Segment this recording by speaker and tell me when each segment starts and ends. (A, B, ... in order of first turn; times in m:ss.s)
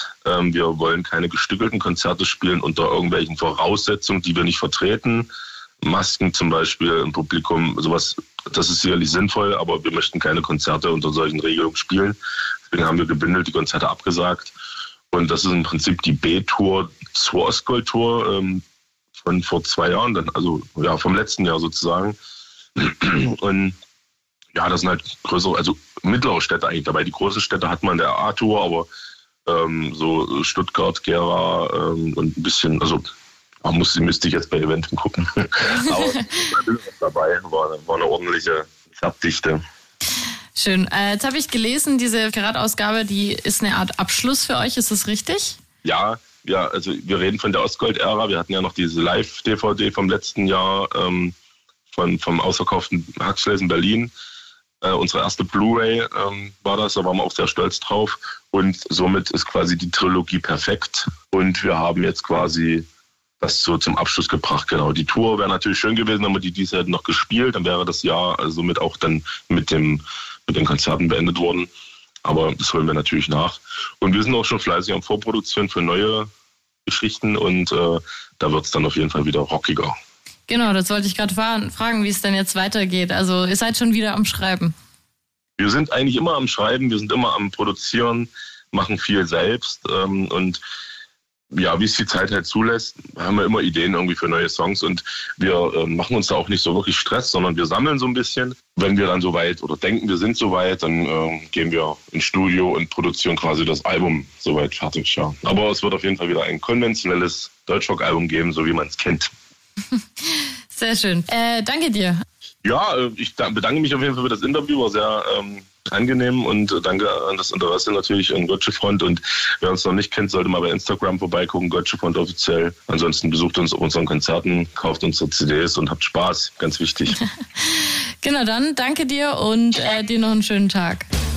0:00.2-0:05.3 A
0:05.8-0:12.2 A
0:12.7-0:14.5 A
0:15.1-0:18.6 A
0:19.2-0:22.2 A
0:22.8-0:23.7 A
0:24.5-0:28.9 A
0:29.4-0:33.0 A
0:33.6-0:39.6 A
0:40.6-0:45.6 B
0:45.8-0:51.3 A
0:51.9-0:54.1 A
0:54.8-1:02.8 A
1:03.4-1:11.7 A
1:12.2-1:16.3 A
1:16.8-1:19.9 A
1:20.5-1:24.7 B
1:25.6-1:30.6 A
1:31.5-1:49.3 A
1:50.2-1:52.2 B
1:52.6-2:07.2 A
2:07.6-2:11.1 B